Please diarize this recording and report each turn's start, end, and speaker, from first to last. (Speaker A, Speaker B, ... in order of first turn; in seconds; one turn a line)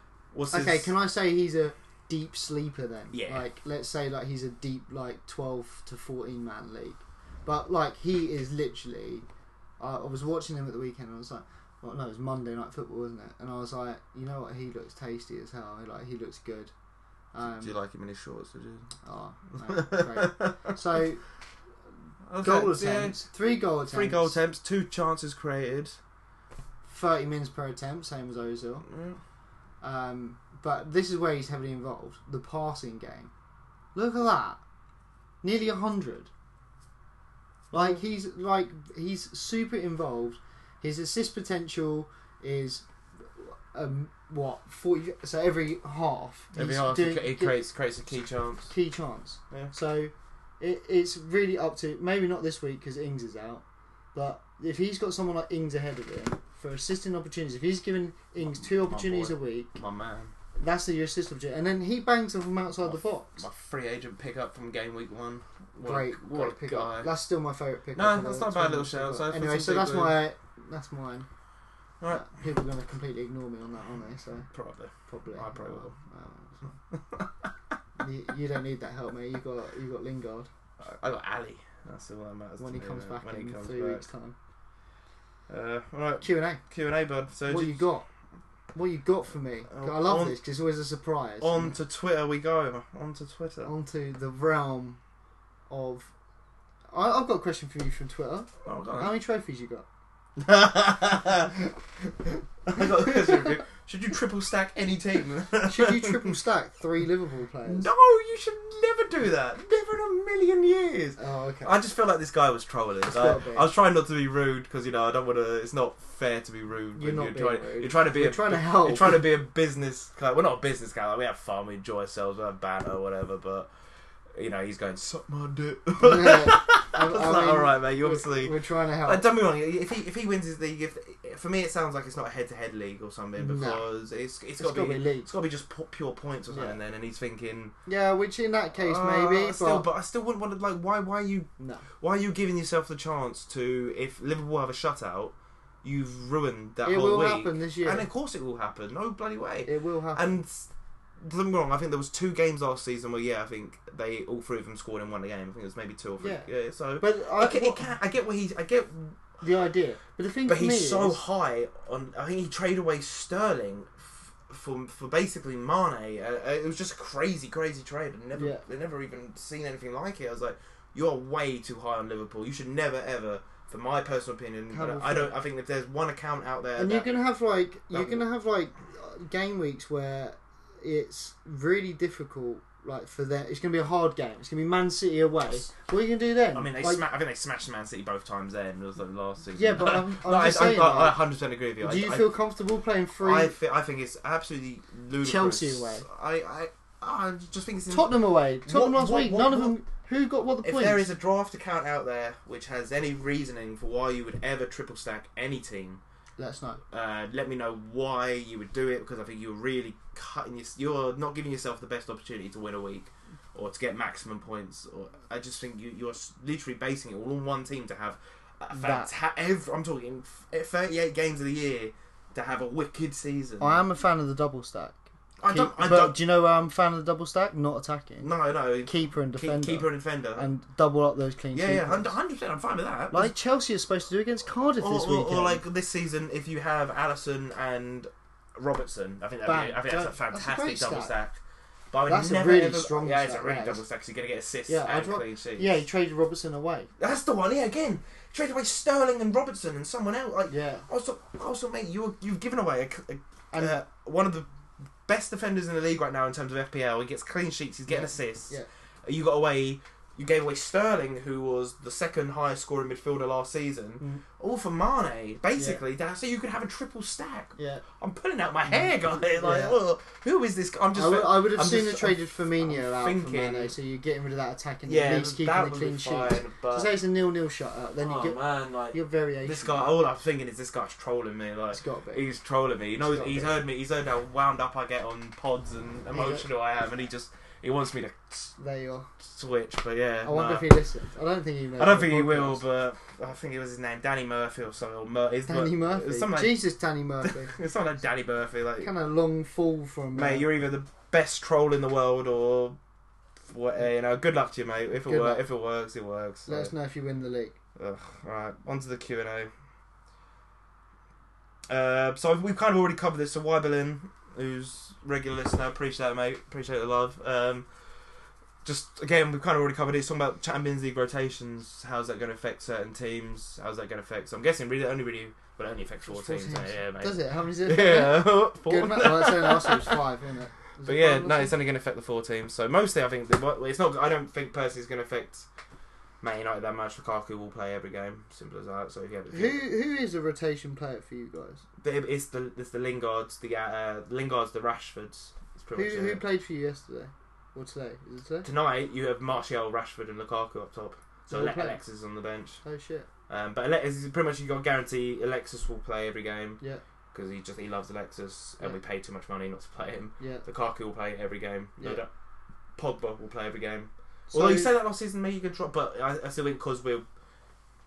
Speaker A: 0.3-0.9
Speaker B: 0.5-9.2
Speaker A: 3.1-3.5
Speaker B: 9.8-16.7
Speaker B: 17.3-17.7
Speaker A: 17.4-18.9
Speaker B: 19.0-21.2
Speaker A: 19.6-20.8
Speaker A: 22.2-23.3
Speaker B: 22.4-24.4
Speaker A: 23.9-26.0
Speaker B: 26.8-28.9
Speaker A: 28.9-29.2
Speaker B: 29.8-33.3
Speaker B: 33.9-34.6
Speaker B: 35.4-36.3
Speaker B: 37.7-47.6
Speaker A: 46.5-48.7
Speaker B: 48.7-53.6
Speaker B: 54.1-59.8
Speaker A: 58.4-60.3
Speaker B: 60.6-63.4
Speaker A: 62.8-67.1
Speaker B: 65.8-71.3
Speaker A: 67.9-70.2
Speaker A: 72.0-72.3
Speaker B: 72.1-74.5
Speaker A: 74.5-75.9
Speaker B: 75.1-76.7
Speaker A: 76.6-77.7
Speaker B: 78.0-80.5
Speaker A: 80.8-84.0
Speaker B: 82.6-84.3
Speaker A: 85.5-87.9
Speaker B: 86.2-86.6
Speaker B: 87.5-88.1
Speaker B: 88.7-91.7
Speaker A: 89.7-90.4
Speaker A: 91.4-93.7
Speaker B: 93.6-95.0
Speaker B: 95.7-96.1
Speaker B: 96.9-99.8
Speaker A: 98.6-99.1
Speaker A: 100.4-106.3
Speaker B: 102.8-103.5
Speaker B: 105.6-107.9
Speaker A: 107.6-123.7
Speaker B: 111.2-111.8
Speaker B: 113.0-113.7
Speaker B: 117.0-119.3
Speaker A: 124.3-137.7
Speaker B: 126.0-129.3
Speaker B: 133.4-133.8
Speaker B: 134.6-135.3
Speaker B: 136.5-136.8
Speaker B: 137.8-139.9
Speaker A: 138.7-141.5
Speaker B: 141.6-141.8
Speaker A: 142.0-159.2
Speaker B: 146.8-148.1
Speaker B: 149.6-150.4
Speaker B: 156.2-156.5
Speaker B: 157.0-157.8
Speaker B: 159.4-161.2
Speaker A: 160.4-177.1
Speaker B: 168.3-168.6
Speaker B: 174.7-175.4
Speaker B: 176.8-187.0
Speaker A: 177.9-178.3
Speaker A: 186.5-192.4
Speaker B: 189.5-191.2
Speaker B: 191.8-193.6
Speaker A: 193.2-199.8
Speaker B: 195.2-196.1
Speaker B: 197.9-201.1
Speaker A: 200.6-206.0
Speaker B: 206.4-206.8
Speaker A: 206.9-223.8
Speaker B: 218.7-219.1
Speaker B: 223.6-228.3
Speaker A: 225.4-226.2
Speaker A: 228.2-230.5
Speaker B: 228.8-232.1
Speaker A: 231.5-233.3
Speaker B: 233.1-235.6
Speaker A: 234.8-241.4
Speaker B: 239.4-241.2
Speaker A: 241.9-245.8
Speaker B: 242.0-243.8
Speaker B: 244.7-246.9
Speaker A: 247.0-254.5
Speaker B: 250.5-250.8
Speaker B: 253.5-253.8
Speaker A: 255.1-273.7
Speaker B: 257.9-258.7
Speaker B: 265.5-265.8
Speaker B: 267.6-267.8
Speaker B: 268.7-269.8
Speaker B: 270.9-279.9
Speaker A: 274.9-276.9
Speaker A: 278.0-288.5
Speaker B: 281.7-282.2
Speaker B: 283.0-283.6
Speaker B: 286.1-286.4
Speaker B: 288.6-289.1
Speaker A: 289.2-290.7
Speaker B: 290.2-292.6
Speaker A: 291.8-296.6
Speaker B: 295.5-297.5
Speaker A: 297.2-298.9
Speaker B: 298.8-300.5
Speaker A: 300.1-302.8
Speaker A: 303.4-306.7
Speaker B: 305.0-305.4
Speaker B: 306.4-307.6
Speaker A: 307.8-309.5
Speaker A: 311.7-317.7
Speaker A: 318.6-330.0
Speaker B: 326.1-331.6
Speaker A: 330.8-335.4
Speaker A: 336.2-339.6
Speaker B: 339.3-341.6
Speaker A: 341.8-346.2
Speaker B: 345.7-348.5
Speaker A: 348.4-352.6
Speaker B: 351.3-351.8
Speaker B: 352.6-353.1
Speaker A: 353.3-356.6
Speaker A: 357.1-362.1
Speaker B: 360.2-360.4
Speaker B: 361.8-362.0
Speaker A: 362.8-367.1
Speaker B: 364.3-364.7